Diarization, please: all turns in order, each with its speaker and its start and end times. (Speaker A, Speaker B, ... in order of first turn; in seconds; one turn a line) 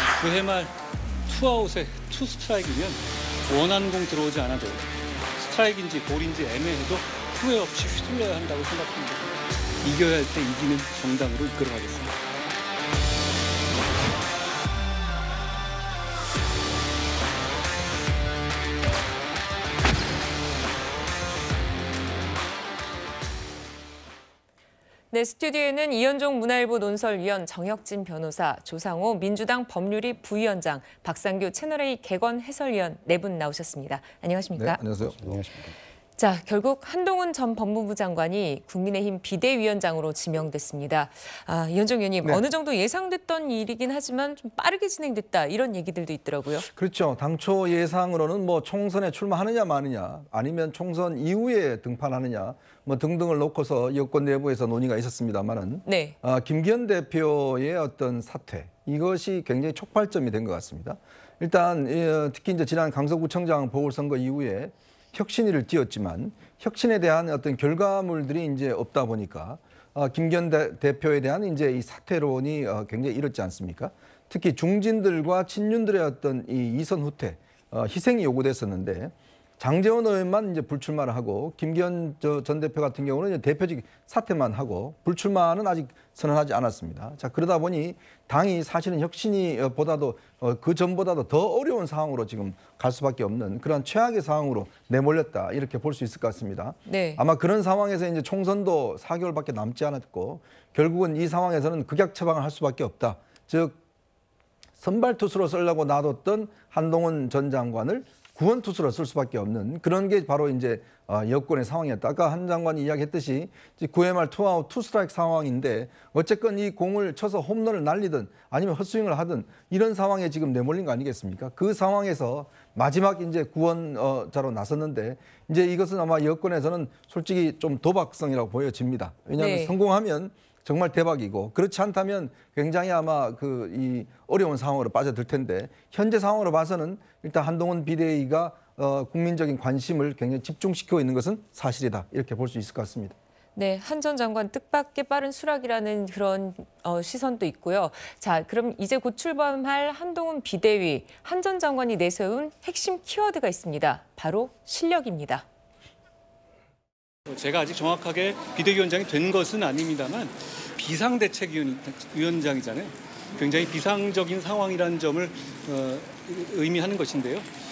Speaker A: 0.2-12.2
Speaker B: 25.1-34.9
Speaker C: 34.6-35.5
Speaker B: 36.2-46.7
Speaker C: 46.7-103.8
Speaker B: 55.9-56.2
Speaker B: 96.9-97.2
Speaker C: 104.8-143.2
Speaker B: 129.4-129.8
Speaker B: 143.6-155.5
Speaker A: 157.3-167.5